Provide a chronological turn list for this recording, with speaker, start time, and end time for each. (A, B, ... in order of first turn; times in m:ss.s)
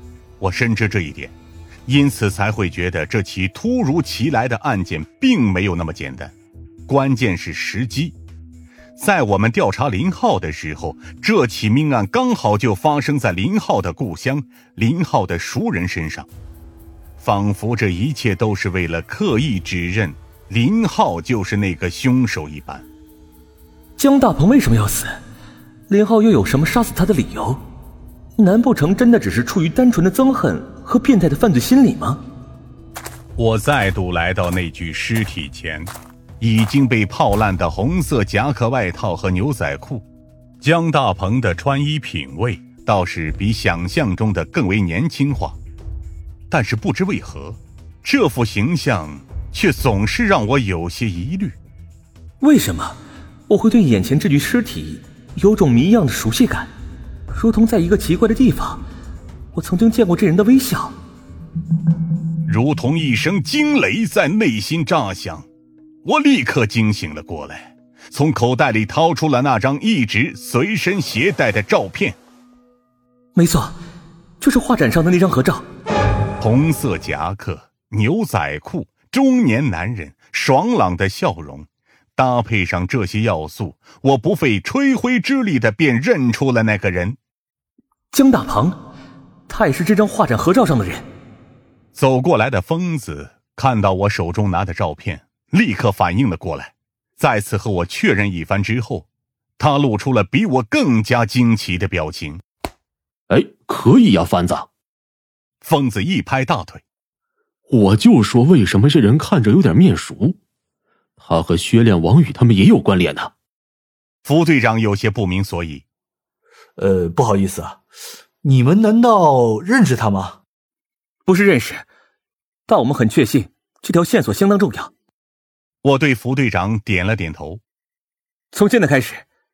0:00.4-0:01.3 A
0:01.8-0:06.3 A
0:06.9-0:08.2 A
0:09.0-0:16.3 A
0:17.2-0:22.8 A
0:24.0-0:25.1 B
0:25.9-0:27.6 B
0:28.4-0:32.2 B
0:33.4-0:40.0 A
0:40.6-0:45.6 A
0:46.5-0:51.6 A
0:52.4-0:56.7 B
0:57.3-0:58.8 B
0:59.5-1:00.9 B
1:02.4-1:05.5 A
1:06.0-1:12.2 A
1:13.4-1:13.7 B
1:14.4-1:15.6 B
1:16.4-1:27.2 A
1:28.1-1:28.8 B
1:29.5-1:31.0 B
1:31.9-1:39.0 A
1:39.6-1:42.4 A
1:43.3-1:44.7 C
1:45.6-1:46.8 A
1:47.7-1:50.4 C
1:51.2-1:53.3 C
1:54.2-1:55.8 A
1:56.8-1:57.8 D
1:58.4-2:00.4 D
2:01.3-2:01.8 B
2:02.7-2:04.9 B
2:05.8-2:07.6 A
2:08.5-2:09.2 B